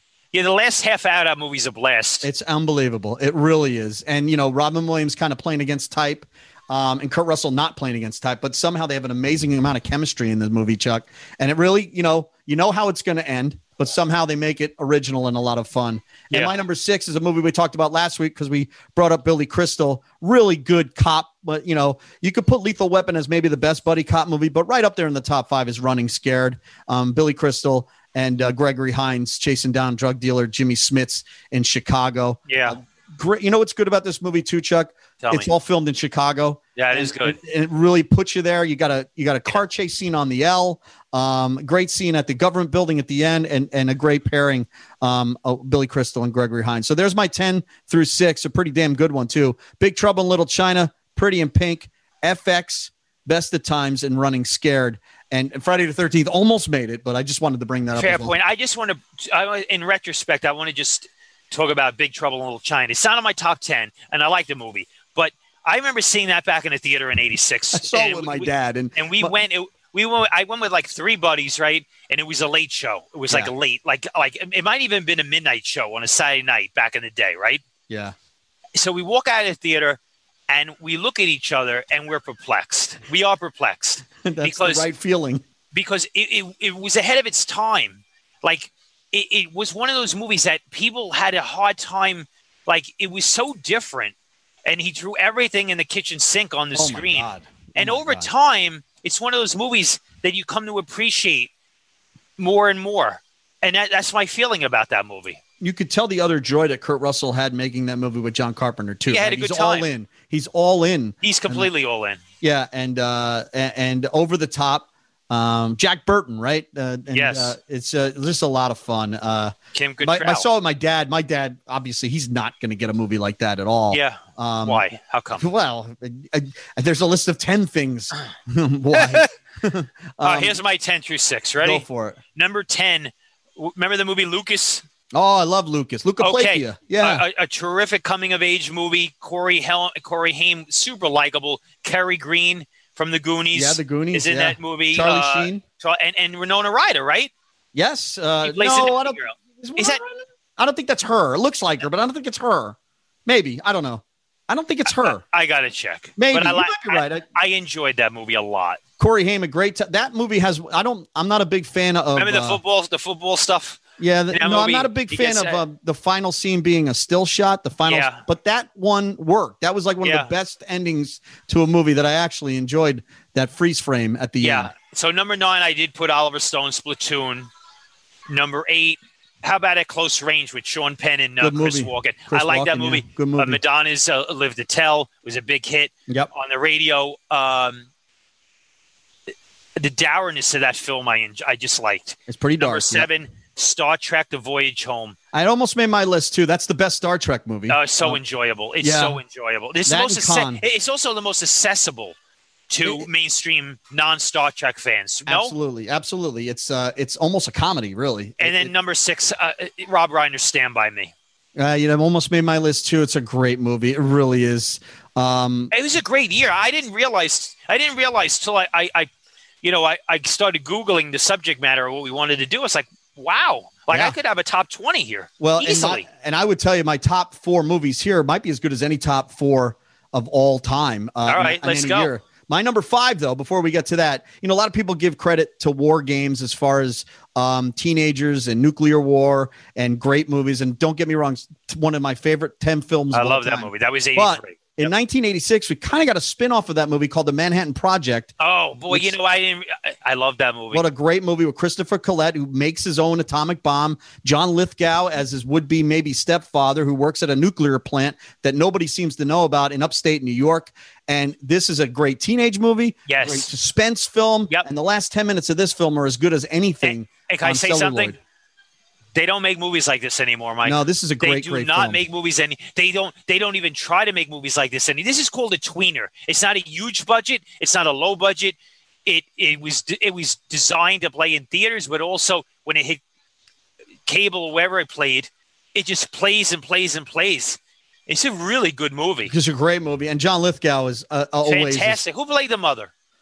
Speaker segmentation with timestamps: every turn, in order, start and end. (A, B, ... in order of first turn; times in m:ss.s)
0:00.3-0:02.3 A
0:02.2-0:58.3 B
0:16.3-0:16.6 A
0:32.5-0:32.8 A
0:35.2-0:35.5 A
0:36.8-0:37.4 A
0:57.9-1:17.6 A
1:07.7-1:09.4 B
1:17.9-1:18.1 B
1:18.7-1:24.9 A
1:24.2-1:25.4 B
1:25.7-1:34.1 A
1:34.6-1:41.5 A
1:36.7-1:38.3 B
1:42.4-1:45.4 A
1:45.6-1:51.7 B
1:49.1-1:49.9 A
1:51.2-1:52.2 A
1:52.4-2:04.8 B
1:57.1-1:57.6 A
1:59.7-2:00.5 A
2:03.9-2:05.4 A
2:05.4-2:10.6 B
2:08.9-2:09.3 A
2:10.2-2:14.8 A
2:11.6-2:12.2 B
2:15.1-2:17.2 B
2:16.2-2:27.3 A
2:23.5-2:25.6 B
2:27.7-2:35.2 B
2:28.4-2:30.0 A
2:34.8-2:38.8 A
2:36.2-2:37.2 B
2:39.0-2:42.6 B
2:42.2-2:43.8 A
2:44.0-2:54.7 B
2:44.3-2:45.6 A
2:47.8-2:48.2 A
2:50.0-2:50.3 A
2:54.4-2:57.5 A
2:58.3-3:07.8 A
3:01.4-3:03.6 B
3:09.8-3:15.2 A
3:12.3-3:13.1 B
3:15.3-3:18.2 B
3:17.7-3:22.1 A
3:18.8-3:19.2 B
3:19.8-3:20.6 B
3:22.7-3:25.5 A
3:22.8-3:23.1 B
3:25.3-3:28.7 B
3:28.4-3:31.1 A
3:31.6-3:35.7 B
3:35.7-3:39.1 A
3:39.6-3:46.0 A
3:43.9-3:44.2 B
3:45.4-4:08.3 B
3:51.2-3:52.1 A
4:03.1-4:04.9 A
4:08.4-4:10.8 A
4:08.9-4:09.1 B
4:10.7-4:28.2 B
4:23.1-4:23.5 A
4:26.8-4:28.2 A
4:29.1-4:43.0 A
4:30.6-4:32.0 B
4:44.0-4:49.3 A
4:49.3-4:52.0 B
4:51.4-4:52.9 A